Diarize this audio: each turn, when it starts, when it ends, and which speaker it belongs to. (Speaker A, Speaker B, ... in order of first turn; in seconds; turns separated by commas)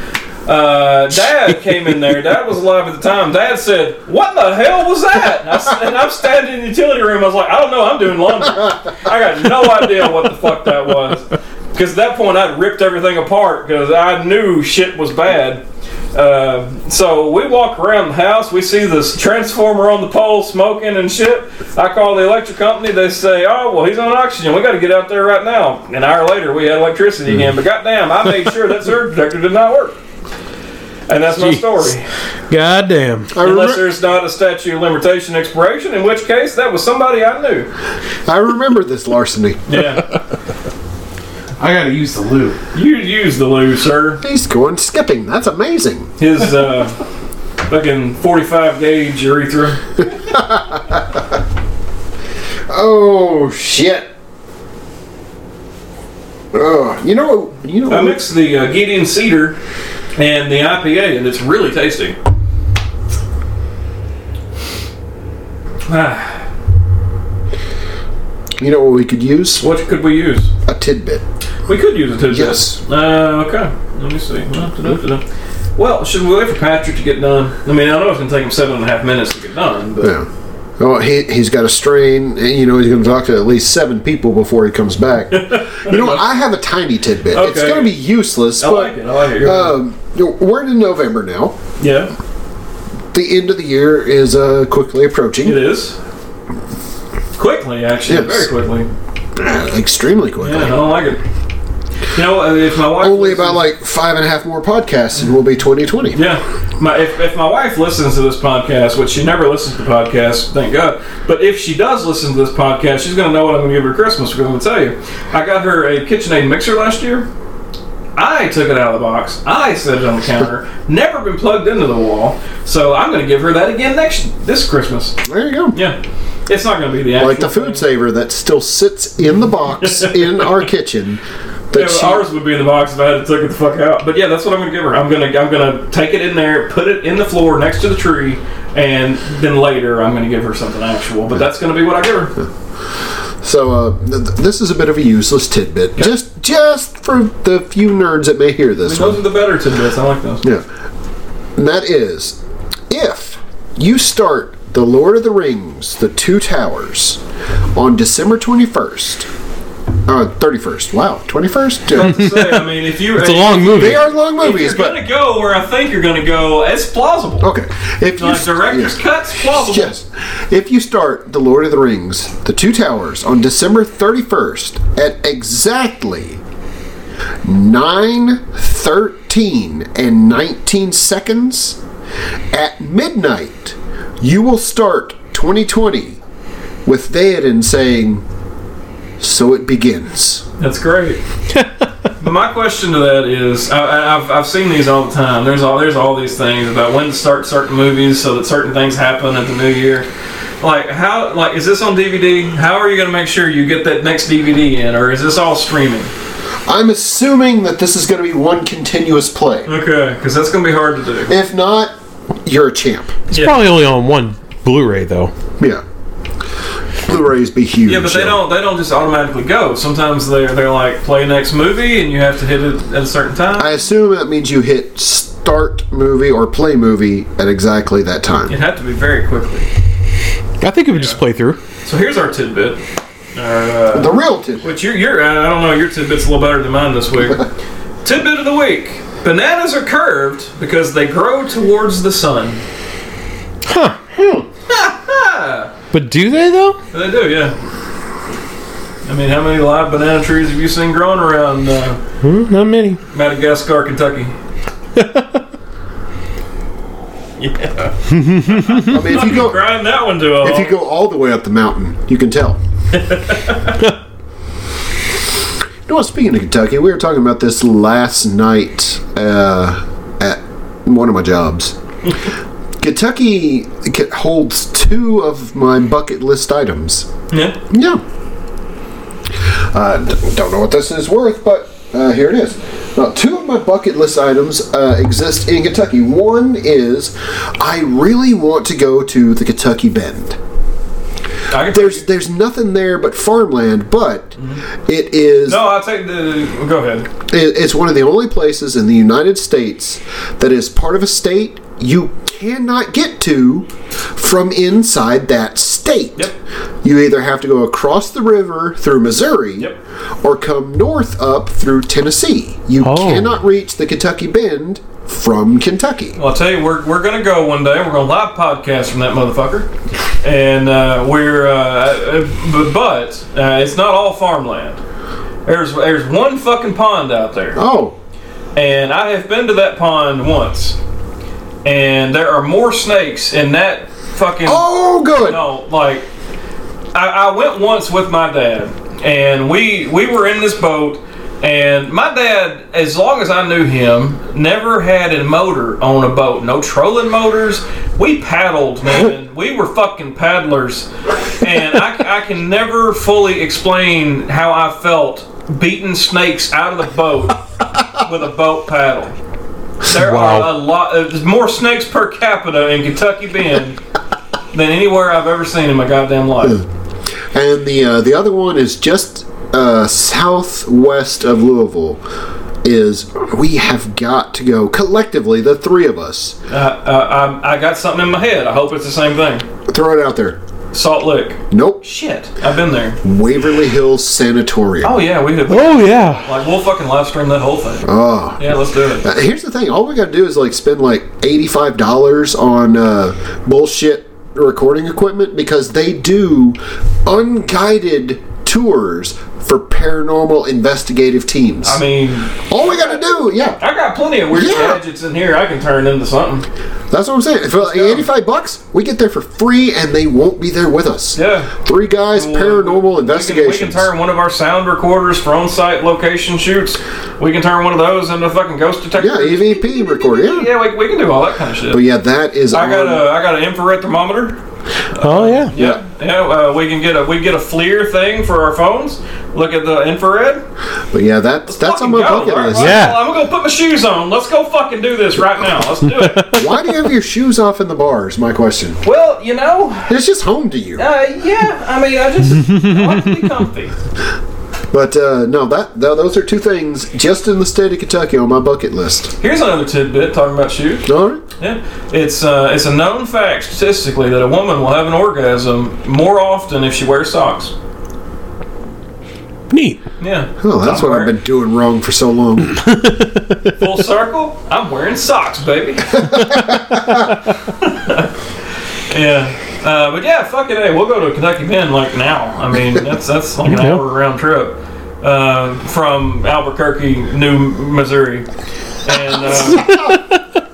Speaker A: 0.5-30.0, Speaker A: 31.1-32.1, Speaker B: 31.3-31.9, Speaker B: 32.5-33.3, Speaker C: 33.3-33.9, Speaker A: 33.4-37.7, Speaker C: 38.2-39.8, Speaker A: 39.7-40.0, Speaker B: 41.6-42.6, Speaker A: 42.7-44.2, Speaker C: 44.2-46.1, Speaker A: 46.2-47.0, Speaker A: 47.7-49.8, Speaker C: 50.2-51.2, Speaker C: 52.7-54.1, Speaker C: 56.5-58.2, Speaker A: 57.9-59.6, Speaker A: 60.1-62.2, Speaker A: 65.9-66.4, Speaker C: 68.6-69.6, Speaker A: 69.6-70.5, Speaker C: 70.7-71.2, Speaker A: 71.7-75.2, Speaker C: 72.3-72.8, Speaker A: 75.8-80.2, Speaker C: 80.0-80.3, Speaker C: 80.8-91.5, Speaker A: 85.3-86.2, Speaker A: 87.3-88.0, Speaker A: 88.6-89.8, Speaker A: 91.8-92.1, Speaker C: 93.1-95.6, Speaker A: 95.4-96.0, Speaker A: 97.3-98.9, Speaker C: 98.1-98.5, Speaker C: 99.3-100.8, Speaker A: 100.4-101.2, Speaker A: 102.1-103.6, Speaker C: 103.0-106.2, Speaker A: 106.1-117.3, Speaker A: 118.2-125.2, Speaker C: 125.2-125.8, Speaker A: 125.7-127.8, Speaker C: 127.2-132.2, Speaker A: 129.7-130.6, Speaker A: 131.7-142.3, Speaker C: 143.4-149.2, Speaker A: 148.8-150.4, Speaker C: 151.6-152.4, Speaker C: 152.9-157.2, Speaker C: 157.7-159.3, Speaker C: 160.1-162.1, Speaker A: 161.9-167.5, Speaker B: 162.0-162.6, Speaker B: 163.2-164.0, Speaker C: 163.7-165.0, Speaker C: 167.4-176.4, Speaker A: 168.2-169.9, Speaker C: 177.4-181.8, Speaker C: 182.5-186.2, Speaker C: 186.8-188.2, Speaker C: 189.2-190.4, Speaker A: 190.6-191.2, Speaker A: 192.2-200.1, Speaker A: 200.6-206.1, Speaker C: 206.7-209.7, Speaker A: 209.7-211.3, Speaker C: 211.3-213.1, Speaker A: 213.3-213.6, Speaker B: 213.3-215.3, Speaker C: 217.0-218.4, Speaker A: 217.8-223.7, Speaker C: 223.6-228.5, Speaker A: 228.5-229.7, Speaker B: 230.6-231.6, Speaker A: 231.8-232.8, Speaker A: 233.3-237.4, Speaker C: 233.9-234.7, Speaker A: 238.0-242.6, Speaker B: 243.7-244.2, Speaker C: 244.1-244.4, Speaker A: 244.7-245.7, Speaker B: 245.9-246.8, Speaker A: 246.9-247.5, Speaker A: 249.0-252.0, Speaker B: 252.2-253.0, Speaker A: 253.1-254.3, Speaker B: 254.9-255.4, Speaker A: 257.4-260.7, Speaker B: 258.1-258.8, Speaker C: 258.8-259.6, Speaker C: 260.4-262.6, Speaker A: 262.9-263.8, Speaker C: 265.9-271.8, Speaker C: 272.8-277.1, Speaker A: 277.3-277.6, Speaker C: 277.7-278.0, Speaker C: 279.4-290.4, Speaker A: 291.5-292.0, Speaker C: 291.7-295.6, Speaker A: 294.4-294.6, Speaker A: 295.5-297.1, Speaker C: 297.3-306.3, Speaker C: 306.8-316.2, Speaker B: 312.8-313.4, Speaker A: 316.1-319.7, Speaker A: 320.2-324.8, Speaker A: 325.4-327.6, Speaker C: 327.5-328.0, Speaker A: 328.5-330.8, Speaker A: 331.6-336.1, Speaker C: 334.4-335.4, Speaker A: 336.9-359.1, Speaker A: 359.8-363.8, Speaker B: 359.9-360.5, Speaker A: 364.5-366.6, Speaker C: 367.3-372.0, Speaker C: 372.6-376.4, Speaker A: 376.5-379.4, Speaker C: 379.7-380.4, Speaker A: 380.7-383.0, Speaker C: 381.5-381.8, Speaker C: 383.0-385.0, Speaker A: 384.8-389.1, Speaker B: 385.5-386.2, Speaker C: 387.8-388.4, Speaker C: 389.0-401.8, Speaker A: 401.6-403.0, Speaker C: 402.4-403.6, Speaker A: 403.6-406.4, Speaker C: 404.3-404.8, Speaker C: 406.9-413.9, Speaker A: 407.6-408.0, Speaker A: 411.1-411.5, Speaker A: 412.1-421.8, Speaker C: 419.0-420.5, Speaker C: 421.7-423.0, Speaker A: 422.5-424.4, Speaker A: 424.9-430.4, Speaker B: 425.0-425.5, Speaker C: 425.5-425.8, Speaker C: 430.9-432.9, Speaker A: 431.4-436.4, Speaker B: 432.6-433.0, Speaker B: 435.9-436.6, Speaker C: 436.3-438.8, Speaker A: 438.8-440.0, Speaker C: 439.9-440.8, Speaker A: 440.8-443.7, Speaker B: 442.4-443.0, Speaker C: 444.7-449.1, Speaker A: 449.2-457.5, Speaker C: 450.9-451.2, Speaker B: 459.5-459.8, Speaker A: 460.0-461.1, Speaker C: 460.4-462.6, Speaker B: 462.5-463.6, Speaker A: 463.6-466.2, Speaker C: 466.1-466.9, Speaker B: 466.2-467.0, Speaker A: 467.5-468.1, Speaker A: 468.9-478.3, Speaker B: 473.4-473.8, Speaker A: 478.8-479.7, Speaker C: 478.9-480.0, Speaker B: 479.7-480.0